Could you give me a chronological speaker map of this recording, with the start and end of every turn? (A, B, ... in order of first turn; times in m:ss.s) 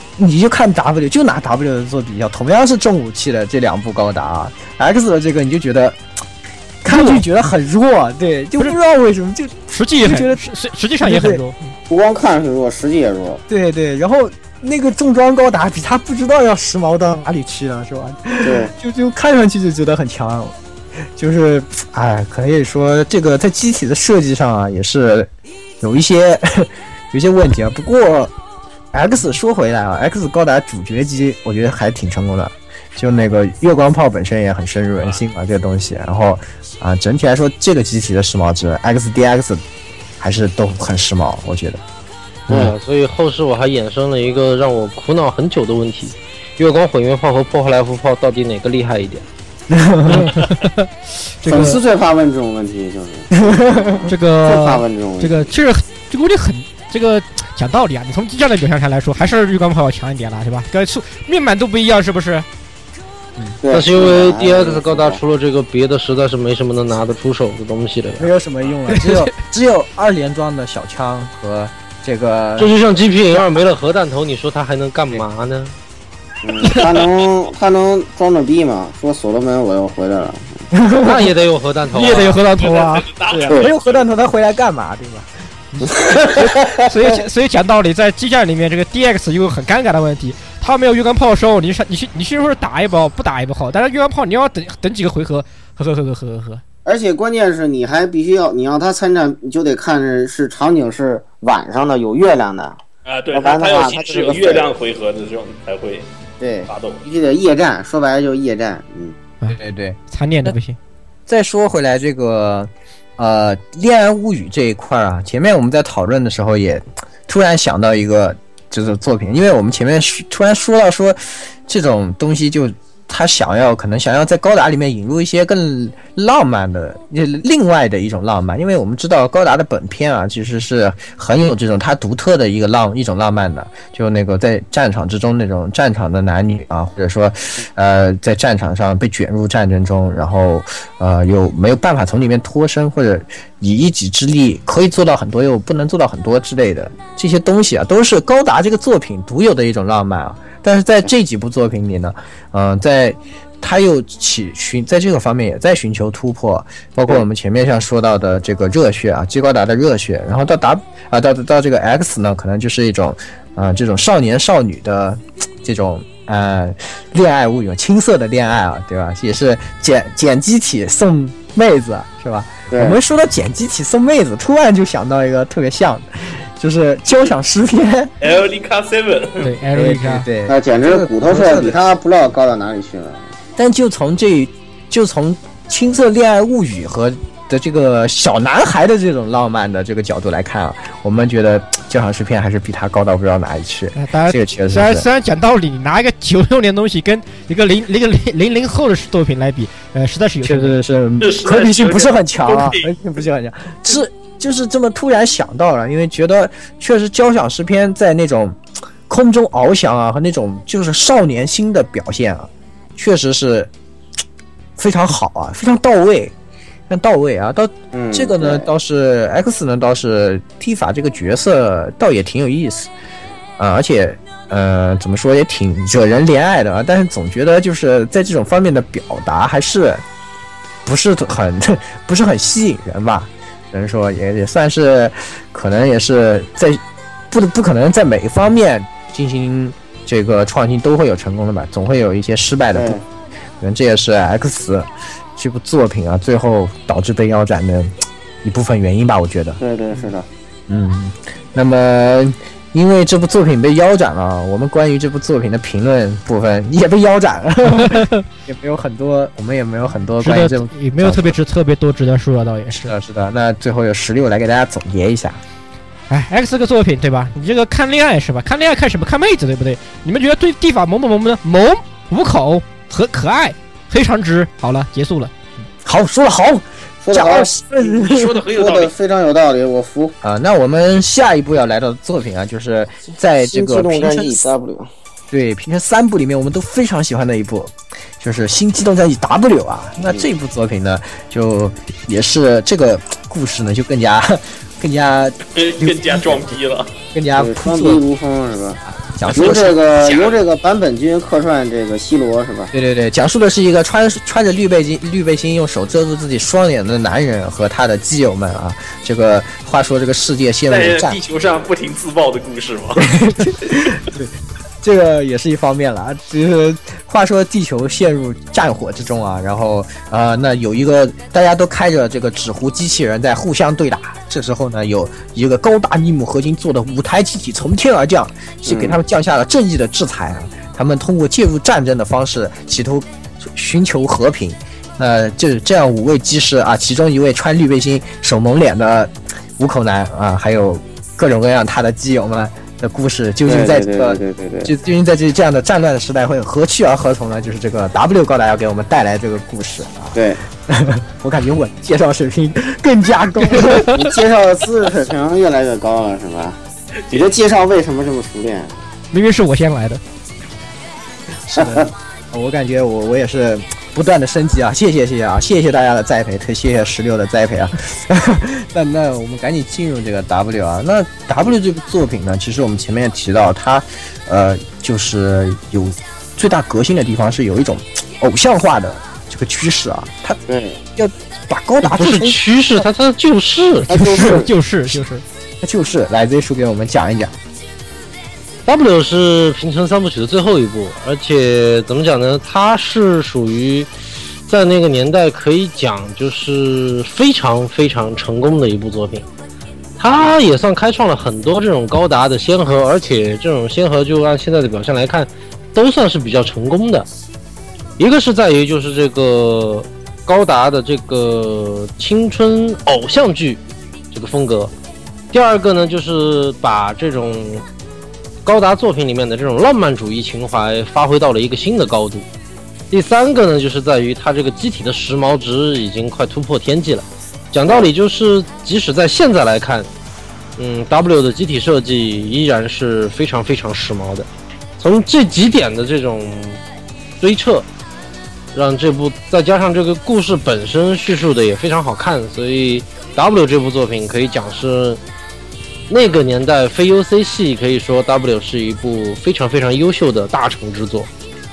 0:00.2-0:06.0 A
0:06.8-0:10.5 A
0:06.9-0:07.2 B
0:09.7-0:11.7 B
0:11.0-0:11.4 A
0:11.9-0:13.4 C
0:13.5-0:20.6 A
0:18.4-0:18.7 C
0:21.2-0:28.3 A
0:28.9-0:39.6 A
0:40.2-0:41.8 A
0:42.5-0:49.2 D
0:49.7-0:50.5 A
0:50.1-0:50.8 B
0:51.4-0:55.5 C
0:51.5-0:51.8 B
0:53.4-0:54.1 A
0:54.1-1:02.5 B
1:03.6-1:05.2 C
1:03.7-1:08.3 D
1:08.2-1:12.7 A
1:08.9-1:09.3 B
1:12.6-1:15.8 D
1:16.4-1:20.7 C
1:20.7-1:21.3 A
1:21.0-1:22.4 D
1:22.0-1:23.0 B
1:22.0-1:25.9 A
1:22.6-1:24.1 E
1:25.9-1:27.0 C
1:26.9-1:36.6 B
1:36.9-1:42.8 C
1:43.0-1:46.1 E
1:43.3-1:44.7 C
1:46.4-1:49.2 C
1:46.7-1:47.0 E
1:49.4-1:50.8 B
1:49.5-1:50.5 A
1:51.3-2:58.1 A
2:52.7-2:53.0 C
2:58.2-2:59.5 E
2:59.4-3:00.3 B
2:59.7-3:01.8 A
3:00.5-3:03.3 C
3:03.6-3:15.1 A
3:14.0-3:20.8 B
3:20.4-3:33.7 A
3:21.2-3:23.0 E
3:34.8-3:36.3 A
3:36.9-3:42.9 A
3:37.9-3:38.7 C
3:43.6-3:50.0 A
3:50.8-3:56.8 A
3:57.3-4:03.0 A
4:02.7-4:03.0 C
4:03.6-4:09.6 A
4:09.6-4:10.3 C
4:10.7-4:21.4 A
4:17.7-4:18.2 B
4:20.2-4:22.9 B
4:22.7-4:25.4 A
4:26.1-4:35.3 B
4:35.8-4:38.4 A
4:37.0-4:37.5 C
4:37.8-4:38.9 E
4:38.5-4:40.2 C
4:40.2-4:44.5 A
4:43.4-4:44.9 C
4:45.3-4:56.6 A
4:55.6-4:56.9 E
4:57.1-4:58.0 A
4:57.4-4:58.8 C
4:58.9-4:59.8 A
4:59.3-5:00.4 E
4:59.3-5:02.7 C
5:02.7-5:11.2 A
5:10.7-5:13.1 E
5:13.0-5:53.9 A
5:28.7-5:29.0 C
5:43.5-5:44.7 C
5:50.2-5:50.4 C
5:53.6-5:54.0 B
5:53.9-5:56.6 C
5:57.1-5:58.8 C
5:59.1-6:00.0 B
6:01.5-6:20.4 A
6:01.6-6:01.9 C
6:20.5-6:20.8 C
6:21.0-6:22.4 A
6:21.8-6:23.9 D
6:23.9-6:25.2 B
6:23.9-6:24.5 C
6:25.6-6:27.4 A
6:28.7-6:33.9 D
6:34.5-6:39.3 D
6:40.0-6:47.1 D
6:48.0-6:54.7 D
6:55.3-6:57.6 D
6:58.4-7:02.3 D
7:02.9-7:09.9 D
7:10.6-7:14.3 D
7:14.8-7:16.6 D
7:17.2-7:17.7 D
7:18.5-7:25.0 D
7:25.9-7:31.1 D